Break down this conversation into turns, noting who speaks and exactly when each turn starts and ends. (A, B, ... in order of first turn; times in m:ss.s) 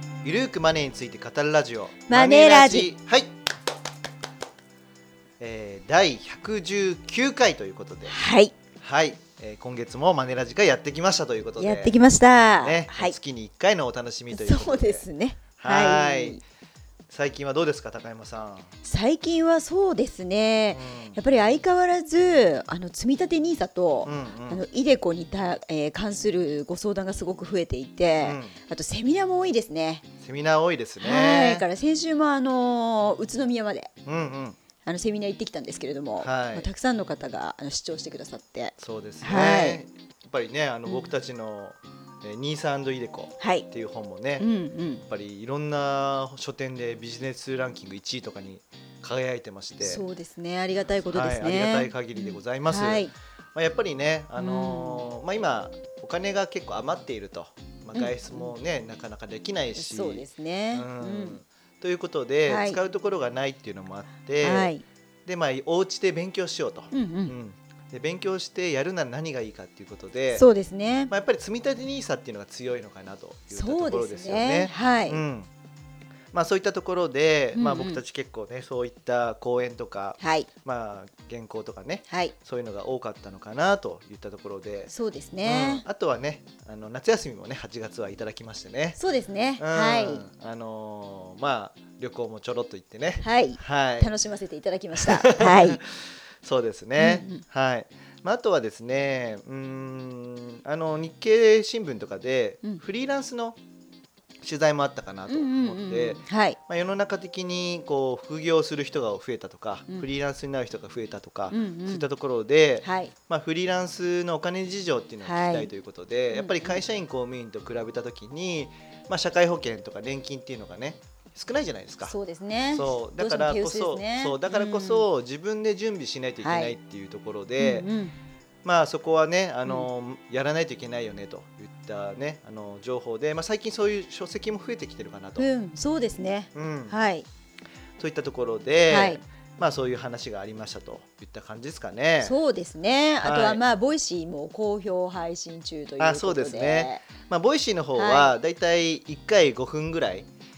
0:00.2-0:03.3 A
0:02.1-0:02.9 B
0:05.4-0:08.2 A
0:08.1-0:08.5 B
0:08.8-0:12.0 A
0:11.6-0:13.2 B
0:12.6-0:16.4 A
0:14.3-0:16.4 B
0:17.1-0:18.8 A
0:18.8-0:30.0 B
0:20.7-0:21.2 A
0:24.0-0:24.6 A
0:28.2-0:28.6 A
0:30.2-0:31.6 A
0:31.0-0:33.9 B
0:34.1-0:34.6 A
0:34.8-0:39.8 B
0:36.2-0:36.7 A
0:38.8-0:44.5 A
0:43.4-0:43.7 B
0:44.4-0:45.0 B
0:45.1-0:50.0 A
0:49.8-0:53.1 B
0:51.1-1:04.7 A
0:54.4-0:55.0 B
0:58.0-0:58.5 B
0:59.8-1:01.4 B
1:02.5-1:02.8 B
1:04.4-1:04.8 B
1:05.3-1:10.4 A
1:06.9-1:07.3 B
1:10.4-1:11.1 B
1:11.1-1:15.5 A
1:13.5-1:15.2 B
1:16.3-1:24.9 A
1:17.6-1:18.0 B
1:20.2-1:20.5 B
1:22.1-1:22.3 B
1:24.9-1:25.8 B
1:25.4-1:29.0 A
1:29.0-1:30.2 B
1:29.6-1:34.1 A
1:33.2-1:35.8 B
1:35.0-1:43.6 A
1:37.0-1:37.4 B
1:44.4-2:02.1 A
1:45.3-1:46.6 B
1:51.5-1:52.0 B
1:52.8-1:53.1 B
1:55.2-1:55.7 B
1:56.3-1:56.8 B
2:02.1-2:05.0 B
2:02.7-2:07.9 A
2:06.4-2:06.8 B
2:07.6-2:08.2 B
2:08.6-2:15.5 A
2:15.4-2:17.3 B
2:16.5-2:17.0 A
2:18.0-2:22.4 A
2:18.9-2:19.2 B
2:22.2-2:27.0 B
2:23.2-2:23.6 A
2:26.0-2:30.3 A
2:28.0-2:28.3 B